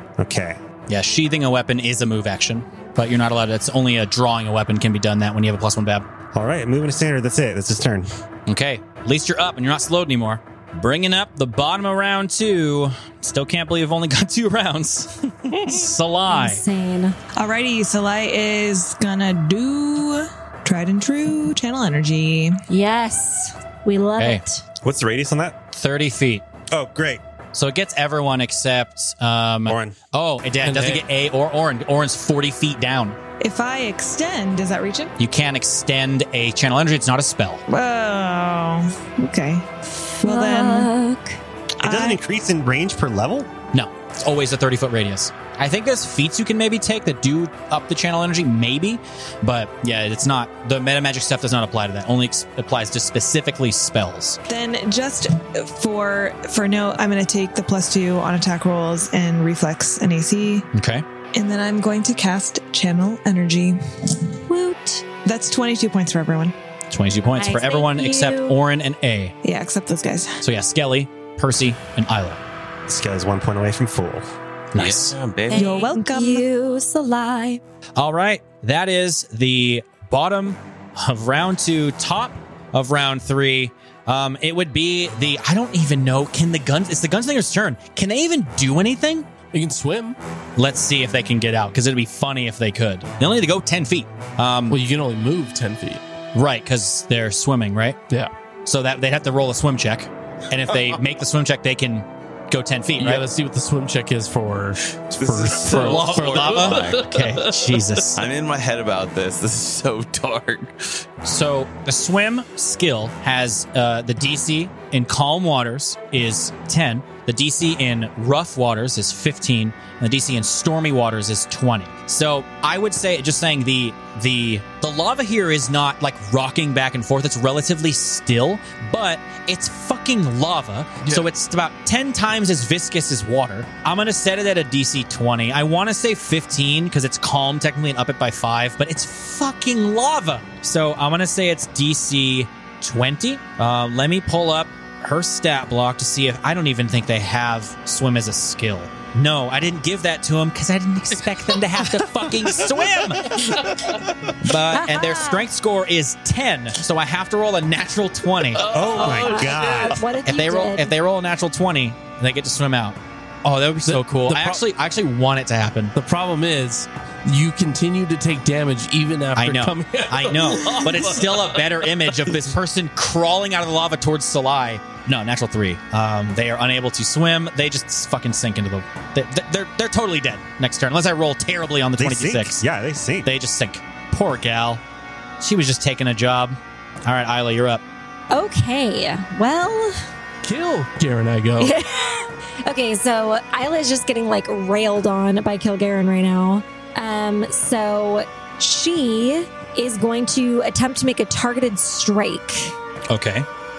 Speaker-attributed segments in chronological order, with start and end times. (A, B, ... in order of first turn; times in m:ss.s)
0:00.2-0:00.6 A
0:00.9-0:06.0 B
0:06.3-0:08.1 A
0:08.5-0:16.6 B
0:16.3-0:17.2 C
0:17.4-0:22.6 D
0:22.7-0:24.6 C
0:24.8-0:25.6 A
0:25.7-0:26.4 B
0:26.7-0:27.2 A
0:27.5-0:33.2 B
0:29.6-0:30.0 A
0:30.6-0:31.0 E
0:33.4-0:35.1 D
0:35.2-0:37.6 B
0:37.7-0:40.9 D
0:40.2-0:41.4 C
0:41.8-0:42.2 D
0:41.8-0:43.5 A
0:43.7-0:54.4 B
0:54.5-1:00.7 D
1:00.7-1:01.0 B
1:01.3-1:03.8 D
1:04.5-1:05.0 C
1:05.2-1:06.5 D
1:06.9-1:09.3 B
1:07.4-1:08.6 C
1:09.4-1:10.4 D
1:10.4-1:12.4 B
1:12.9-1:14.3 A
1:14.7-1:15.2 B
1:14.8-1:15.8 F
1:15.5-1:17.6 C
1:15.5-1:16.4 D
1:18.0-1:29.2 B
1:29.5-1:30.2 E
1:30.6-1:34.8 B
1:34.7-1:36.0 E
1:36.3-1:38.0 B
1:38.6-1:43.2 B
1:43.0-1:47.9 E
1:45.2-1:47.2 F
1:45.6-1:48.2 B
1:48.2-1:50.9 F
1:51.2-2:38.6 B
2:11.0-2:11.3 E
2:34.7-2:35.4 C
2:38.4-2:40.0 E
2:38.6-2:40.0 A
2:38.9-2:40.9 C
2:40.2-2:45.9 B
2:43.8-2:44.6 E
2:45.9-2:52.5 E
2:49.4-3:02.6 B
3:02.0-3:03.3 A
3:03.2-3:04.8 B
3:05.4-3:07.8 B
3:08.3-3:10.0 C
3:10.4-3:11.7 E
3:11.6-3:22.7 C
3:23.1-3:23.4 B